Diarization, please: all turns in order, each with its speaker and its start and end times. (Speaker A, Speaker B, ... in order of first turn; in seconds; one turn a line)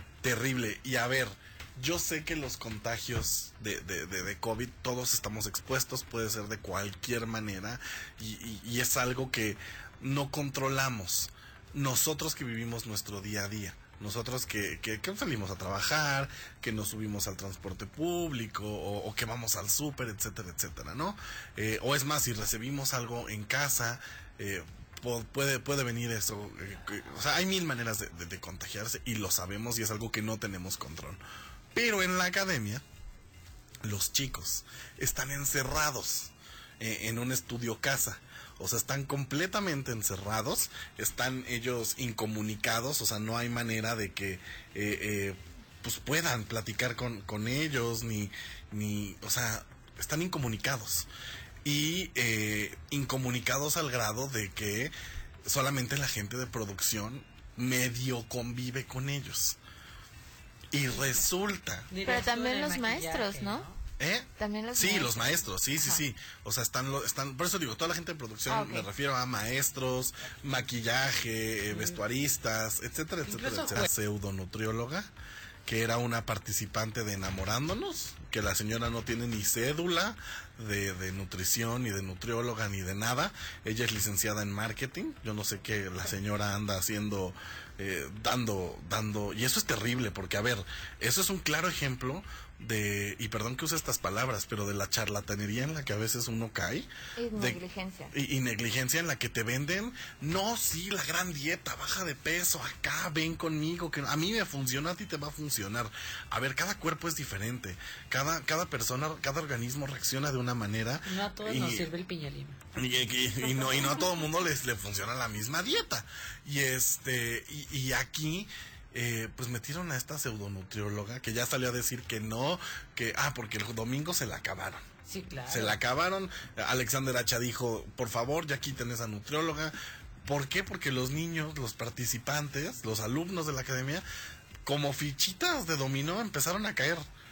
Speaker A: 0.2-31.2
Speaker A: 31.7-32.8
Speaker A: 33.8-51.1
Speaker A: 51.6-54.9
Speaker A: 55.5-59.6
Speaker A: 60.7-61.9
Speaker B: 61.9-63.8
Speaker C: 62.0-63.7
Speaker A: 64.0-75.1
Speaker C: 64.4-66.0
Speaker C: 68.5-68.9
Speaker B: 73.2-73.9
Speaker A: 75.7-97.6
Speaker C: 97.2-98.1
Speaker A: 98.1-111.9
Speaker B: 111.0-112.6
Speaker A: 112.8-124.8
Speaker B: 125.1-125.8
Speaker A: 125.5-129.7
Speaker A: 130.2-134.0
Speaker A: 134.6-137.0